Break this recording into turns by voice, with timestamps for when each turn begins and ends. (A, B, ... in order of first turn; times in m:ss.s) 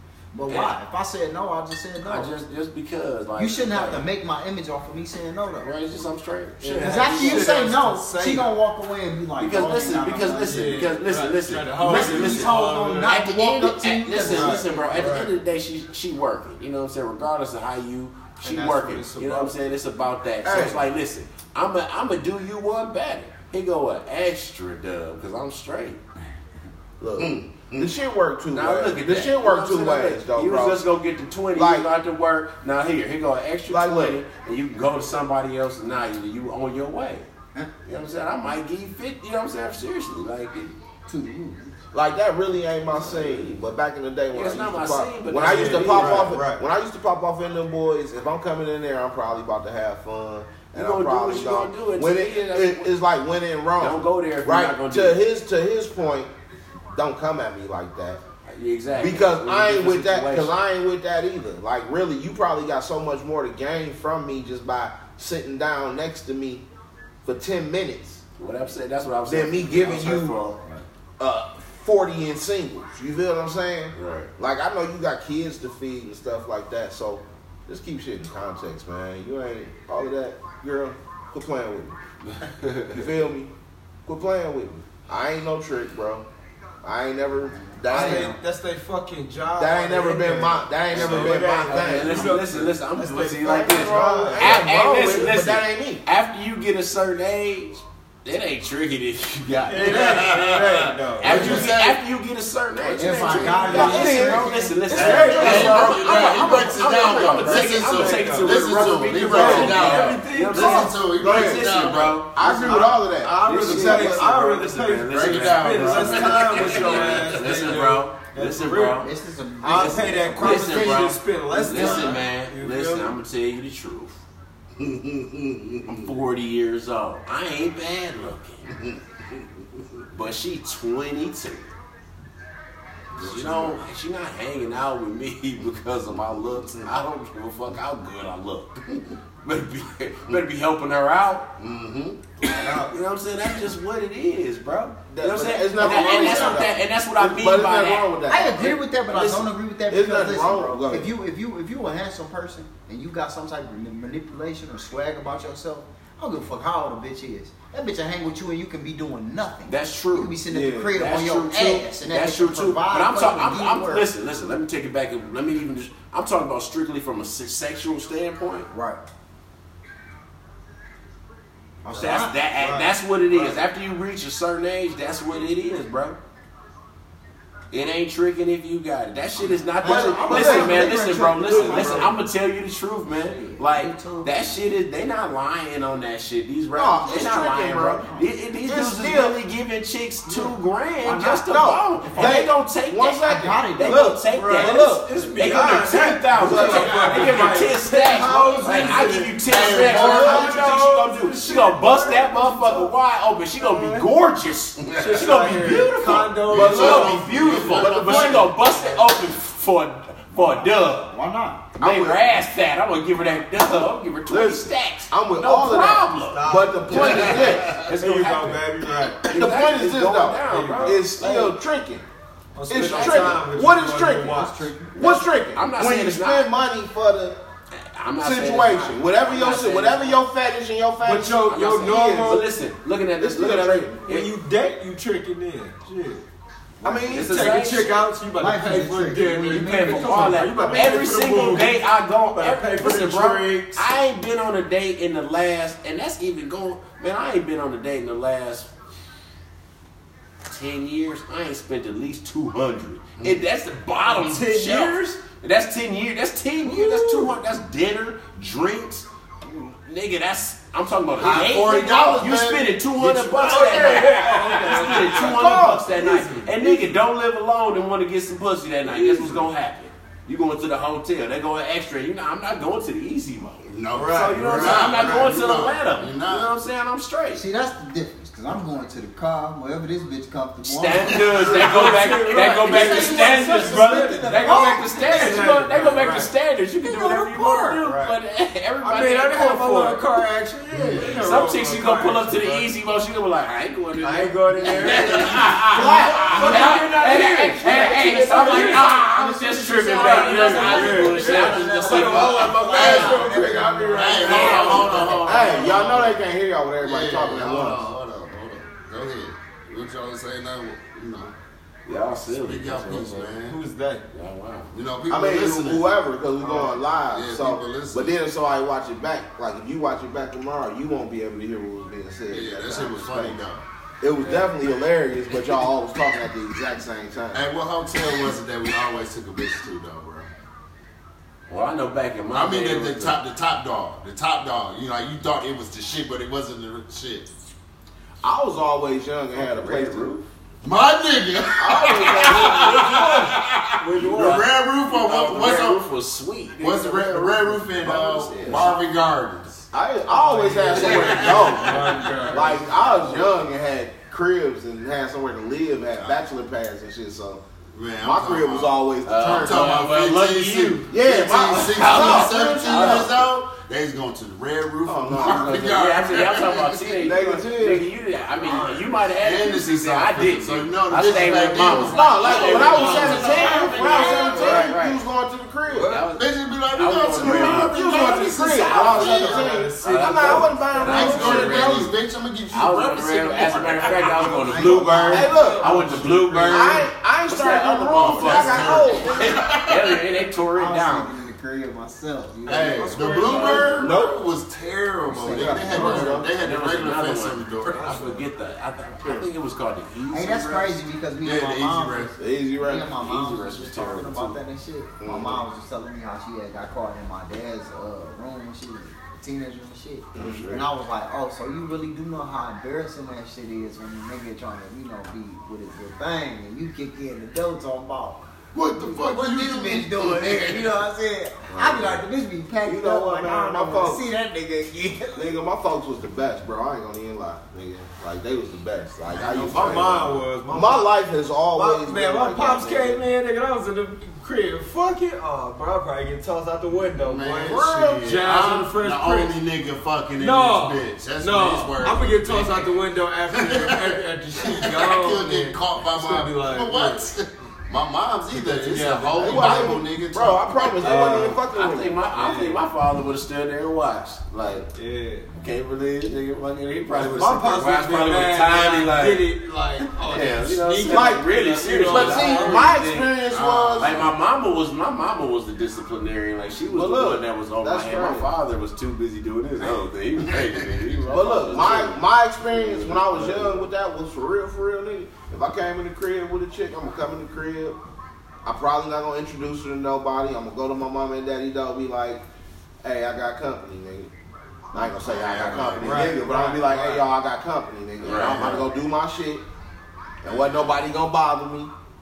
0:00.3-0:02.3 A
0:00.5-0:00.8 B
0:02.0-0:04.1 B
0:03.4-0:05.7 A
0:05.6-0:07.5 B
0:06.6-0:08.5 C
0:06.8-0:10.8 A
0:09.4-0:26.0 B
0:10.4-0:13.1 C
0:11.8-0:15.2 A
0:14.2-0:15.3 C
0:18.4-0:19.6 C
0:20.4-0:20.8 D
0:27.0-0:30.8 D
0:27.2-0:27.9 E
0:28.5-0:37.3 B
0:31.5-0:31.9 D
0:33.7-0:34.2 D
0:37.8-0:40.7 B
0:41.1-0:41.7 A
0:41.9-0:56.3 D
0:42.9-0:43.7 B
0:44.3-0:46.4 B
0:45.4-0:46.6 C
0:50.7-0:53.0 B
0:53.8-0:55.2 B
0:56.9-0:58.2 D
0:58.5-1:00.6 B
0:59.0-1:06.6 D
1:07.2-1:08.2 D
1:08.4-1:10.8 B
1:09.3-1:10.4 D
1:11.2-1:22.0 D
1:13.9-1:14.3 B
1:22.3-1:23.0 B
1:22.9-1:23.5 D
1:24.1-1:26.3 D
1:26.8-1:28.4 D
1:27.8-1:28.4 A
1:27.9-1:35.3 C
1:29.6-1:32.4 D
1:30.9-1:40.3 B
1:33.4-1:36.0 D
1:39.7-1:41.7 C
1:39.8-1:42.0 E
1:41.2-1:59.1 B
1:43.0-1:45.8 A
1:43.1-1:43.9 E
1:43.4-1:44.2 C
1:43.5-1:47.2 D
1:44.9-1:51.0 C
1:44.9-1:52.2 E
1:51.2-1:51.7 D
1:52.3-1:54.3 D
1:52.4-1:59.1 C
1:55.1-1:57.4 E
1:59.0-2:01.1 A
1:59.6-2:03.2 C
1:59.7-2:04.2 B
2:01.7-2:02.2 A
2:04.8-2:05.8 E
2:05.8-2:08.8 B
2:10.1-2:11.7 B
2:13.1-2:13.8 E
2:13.2-2:18.8 B
2:19.4-2:21.5 B
2:21.6-2:22.3 E
2:22.4-2:22.9 C
2:22.4-2:28.1 B
2:25.1-2:31.1 D
2:25.8-2:26.7 A
2:28.3-2:44.1 A
2:39.7-2:40.4 B
2:40.5-2:41.0 D
2:40.9-2:48.7 B
2:48.7-2:49.0 A
2:51.8-2:52.4 A
2:51.9-2:56.2 B
2:52.6-2:53.6 C
2:57.7-3:31.1 B
2:59.8-3:02.2 A
2:59.8-3:02.1 D
3:03.1-3:04.4 A
3:06.7-3:09.4 D
3:11.0-3:12.5 A
3:11.5-3:15.0 D
3:13.2-3:14.2 A
3:14.0-3:22.9 C
3:16.3-3:19.1 D
3:19.4-3:20.5 E
3:19.7-3:20.6 D
3:23.6-3:24.1 C
3:24.8-3:25.4 E
3:24.9-3:29.0 C
3:26.4-3:28.6 E
3:26.6-3:27.3 D
3:30.3-3:31.7 A
3:31.8-3:38.7 B
3:31.8-3:32.4 D
3:33.6-3:37.8 D
3:36.3-3:39.3 C
3:37.0-3:37.9 E
3:39.2-3:41.6 B
3:39.2-3:42.0 D
3:40.5-3:41.1 C
3:42.6-3:44.7 C
3:42.7-3:47.4 D
3:42.8-3:43.4 B
3:44.2-3:45.0 A
3:45.0-3:46.5 B
3:47.7-3:50.2 B
3:48.2-3:52.4 D
3:51.0-3:52.4 C
3:51.5-3:54.3 B
3:53.2-3:54.0 D
3:54.0-3:56.2 C
3:56.8-4:03.9 C
3:56.8-3:57.6 D
3:57.1-3:58.0 B
3:58.4-4:00.7 A
3:59.4-4:08.7 B
4:00.6-4:01.1 D
4:10.5-4:37.4 B
4:14.1-4:15.0 C
4:16.6-4:17.3 C
4:21.2-4:25.0 E
4:23.4-4:26.9 C
4:25.0-4:26.2 D
4:28.9-4:29.4 C
4:33.7-4:36.6 E
4:33.9-4:35.3 C
4:37.3-4:45.4 A
4:40.6-4:50.2 B
4:41.4-4:46.3 C
4:46.9-4:47.4 A
4:47.4-4:48.2 C
4:48.8-4:52.6 C
4:50.7-4:51.2 E
4:51.0-5:03.4 B
4:54.0-5:05.2 C
4:54.8-4:55.5 E
4:55.7-4:58.9 D
4:55.8-5:04.7 A
5:02.7-5:06.2 E
5:04.2-5:05.8 B
5:05.2-5:07.9 D
5:06.8-5:11.4 E
5:11.9-5:13.4 B
5:12.2-5:13.6 E
5:13.4-5:14.0 C
5:14.1-5:14.7 B
5:14.7-5:15.9 E
5:15.1-5:23.4 D
5:16.4-5:16.8 C
5:17.0-5:18.2 E
5:22.3-5:23.6 E
5:24.0-5:27.5 D
5:27.3-5:30.3 E
5:31.5-5:33.2 B
5:32.3-5:37.3 E
5:38.2-5:40.2 D
5:39.3-5:40.2 B
5:40.6-5:45.8 E
5:41.6-5:43.2 D
5:41.8-5:48.8 B
5:42.2-5:44.5 C
5:46.6-5:49.6 E
5:49.7-5:57.4 D
5:50.1-5:53.1 C
5:50.7-5:52.2 E
5:57.7-6:07.1 E
5:58.0-5:59.8 D
5:59.0-6:03.3 B
6:00.9-6:03.2 D
6:04.8-6:05.6 D
6:05.2-6:15.0 B
6:07.0-6:07.9 D
6:09.2-6:13.7 E
6:11.7-6:16.0 D
6:12.2-6:14.7 C
6:15.7-6:16.0 C
6:15.8-6:21.9 B
6:16.1-6:19.5 E
6:17.2-6:21.9 D
6:18.9-6:21.7 C
6:20.8-6:24.6 E
6:22.5-6:31.1 B
6:23.5-6:26.8 C
6:24.4-6:25.7 A
6:25.1-6:25.7 D
6:26.5-6:29.4 D
6:27.9-6:30.0 E
6:30.5-6:33.3 A
6:32.5-6:38.0 E
6:32.6-6:33.9 C
6:33.2-6:33.8 B
6:33.4-6:34.2 D
6:35.1-6:36.1 A
6:35.3-6:36.3 D
6:35.8-6:40.8 B
6:37.7-6:38.3 C
6:40.1-6:58.2 A
6:41.2-6:42.2 E
6:42.2-6:43.0 D
6:42.9-6:44.4 B
6:45.0-6:45.4 D
6:50.2-6:50.7 D
6:58.5-7:00.8 E
6:58.8-7:05.4 A
7:01.5-7:02.0 D
7:02.6-7:04.0 D
7:05.2-7:13.1 D
7:09.1-7:10.1 E
7:09.1-7:10.9 C
7:11.5-7:19.3 C
7:17.0-7:22.7 E
7:17.4-7:18.0 D
7:20.2-7:27.1 C
7:23.3-7:31.1 E
7:28.4-7:29.8 C
7:29.2-7:32.2 D
7:30.8-7:31.4 C
7:30.9-7:34.7 B
7:32.2-7:32.6 C
7:34.7-7:35.3 C
7:35.4-7:39.2 B
7:36.9-7:42.8 C
7:40.0-7:43.1 B
7:40.9-7:44.0 D
7:43.3-7:44.1 E
7:43.8-7:53.7 B
7:46.7-7:48.3 D
7:50.3-7:50.7 E
7:51.1-7:57.8 D
7:58.4-8:02.2 D
8:02.8-8:04.1 D
8:04.7-8:09.4 D
8:05.0-8:06.2 E
8:05.8-8:07.1 C
8:08.0-8:08.7 B
8:08.0-8:08.6 E
8:10.2-8:11.7 D
8:10.3-8:10.7 E